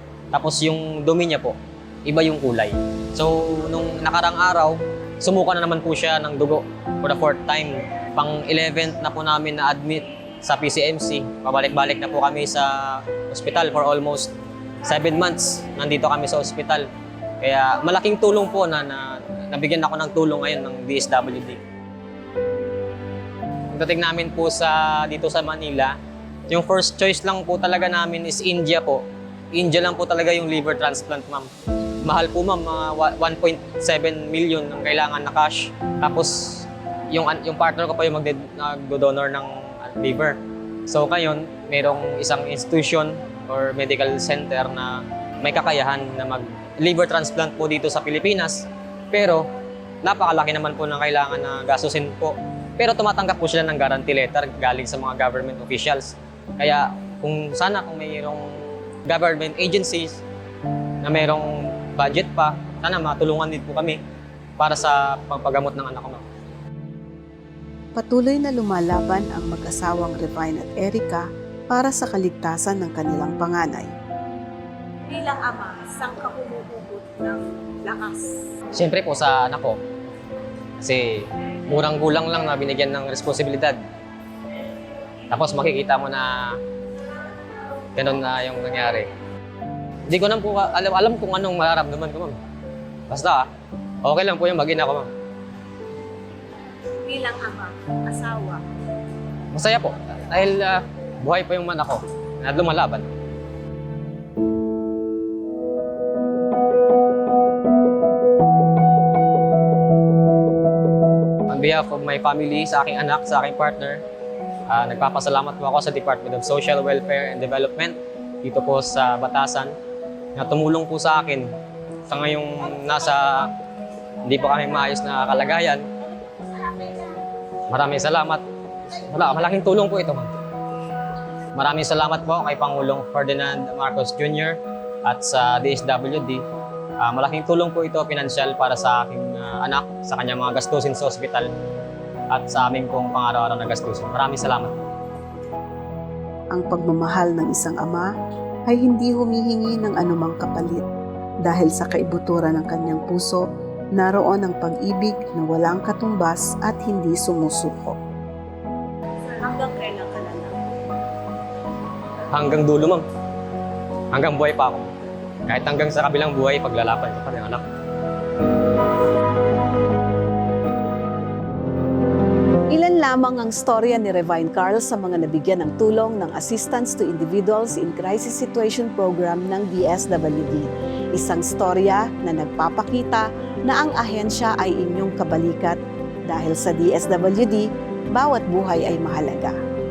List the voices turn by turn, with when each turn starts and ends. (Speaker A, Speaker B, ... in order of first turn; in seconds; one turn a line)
Speaker A: 0.3-14.3
Speaker A: 14.8-16.9
Speaker A: 17.4-21.6
Speaker A: 23.7-25.9
Speaker A: 26.5-31.5
Speaker A: 32.0-49.5
Speaker A: 50.0-60.2
Speaker A: 61.0-64.0
Speaker A: 64.6-66.2
Speaker B: 68.0-73.9
Speaker C: 75.1-78.3
Speaker A: 78.7-79.8
Speaker A: 80.8-83.8
Speaker A: 85.3-86.6
Speaker A: 88.0-89.1
Speaker A: 90.1-92.4
Speaker A: 93.1-93.5
Speaker A: 94.0-95.1
Speaker C: 97.0-98.6
Speaker A: 99.5-103.1
Speaker A: 111.5-114.0
Speaker A: 114.7-119.7
Speaker A: 120.3-121.5
Speaker A: 122.1-123.5
Speaker A: 124.2-125.8
Speaker A: 127.7-130.3
Speaker A: 131.5-136.4
Speaker A: 137.0-141.5
Speaker A: 142.3-144.7
Speaker B: 146.5-148.1
Speaker B: 148.7-150.8
Speaker B: 151.4-158.0
Speaker C: 159.2-160.8
Speaker A: 162.3-163.0
Speaker A: 164.1-164.9
Speaker A: 165.4-167.6
Speaker B: 172.7-189.6